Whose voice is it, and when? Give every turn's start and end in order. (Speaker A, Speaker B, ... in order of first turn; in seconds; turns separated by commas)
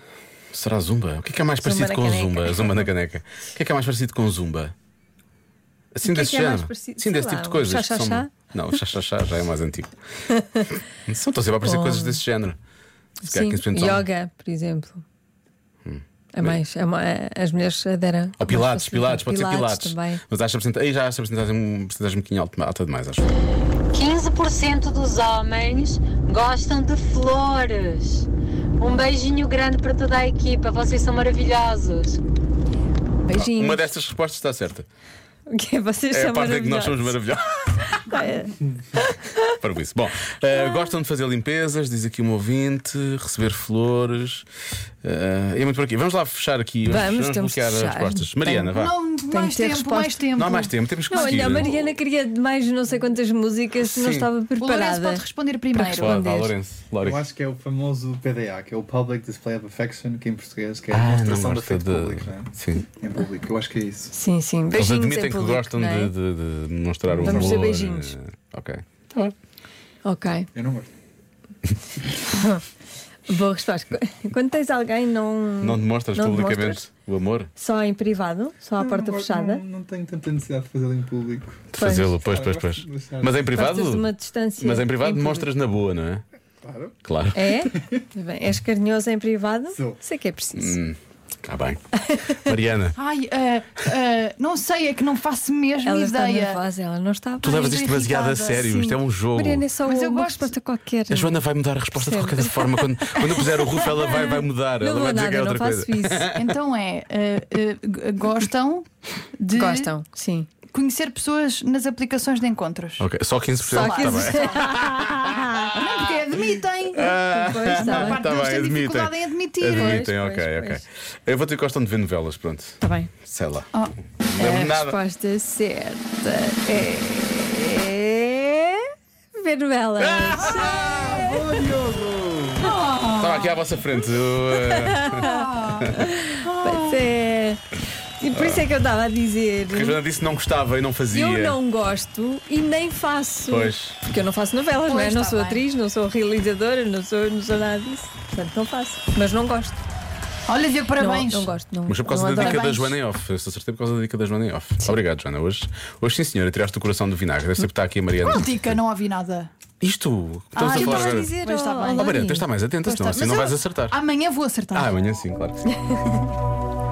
Speaker A: 0.5-4.7, Speaker B: 1.6-2.9, Speaker A: 5.9-9.9, Speaker B: 6.0-8.3, Speaker A: 11.1-12.6, Speaker B: 11.6-12.2, Speaker B: 13.2-15.0, Speaker A: 13.3-14.1, Speaker A: 15.8-16.6, Speaker B: 16.4-20.2, Speaker A: 18.4-23.2, Speaker C: 23.9-28.3, Speaker C: 28.8-32.2, Speaker B: 33.3-33.9, Speaker A: 33.4-34.9, Speaker B: 35.5-37.2, Speaker A: 36.1-37.6, Speaker B: 38.0-39.3, Speaker A: 39.6-44.5, Speaker A: 45.0-49.0, Speaker B: 46.9-48.7, Speaker D: 48.7-51.7, Speaker B: 49.3-50.2, Speaker A: 50.3-51.8, Speaker B: 51.1-56.5, Speaker A: 53.8-54.3, Speaker D: 54.6-56.2, Speaker A: 55.9-57.2, Speaker E: 57.0-64.1, Speaker A: 60.9-62.9, Speaker B: 64.1-66.1, Speaker A: 64.7-69.3, Speaker E: 67.1-67.6, Speaker B: 67.2-68.1, Speaker B: 70.0-70.5, Speaker E: 70.5-70.9, Speaker B: 73.3-76.8, Speaker A: 75.6-77.5, Speaker B: 77.6-79.6, Speaker E: 78.8-83.5, Speaker A: 81.7-86.2, Speaker B: 81.8-82.1, Speaker B: 83.5-85.5, Speaker E: 86.6-86.9, Speaker A: 87.0-87.6, Speaker B: 87.3-90.8, Speaker E: 89.7-90.0, Speaker A: 90.5-93.0, Speaker D: 93.0-96.6, Speaker B: 95.8-97.8, Speaker A: 97.4-99.7, Speaker D: 97.5-98.7, Speaker B: 98.6-101.4, Speaker D: 99.8-100.5, Speaker A: 101.1-106.5, Speaker B: 102.0-103.7, Speaker B: 104.8-106.3, Speaker D: 106.4-108.9, Speaker D: 109.4-109.9, Speaker B: 109.5-110.5, Speaker D: 110.7-113.1, Speaker A: 113.0-115.7, Speaker D: 113.6-114.9, Speaker B: 113.7-114.7, Speaker D: 115.7-120.0, Speaker A: 117.0-125.0, Speaker B: 117.3-118.3, Speaker B: 119.7-120.8, Speaker B: 122.8-123.1, Speaker B: 124.4-128.8, Speaker B: 129.4-131.4, Speaker A: 130.0-136.1, Speaker D: 132.6-133.6, Speaker B: 134.8-137.6, Speaker D: 135.2-135.7, Speaker D: 136.4-137.1, Speaker B: 138.2-140.0, Speaker A: 138.3-138.7, Speaker A: 139.7-141.6, Speaker B: 141.1-149.8, Speaker A: 143.5-144.0, Speaker D: 144.8-145.6, Speaker D: 150.5-151.5, Speaker B: 151.0-152.6, Speaker A: 151.9-158.8, Speaker D: 152.3-152.9, Speaker D: 158.2-159.5, Speaker A: 159.8-161.4, Speaker D: 160.6-162.2, Speaker B: 160.7-162.5, Speaker A: 162.0-164.0, Speaker D: 162.8-164.9, Speaker A: 164.7-166.2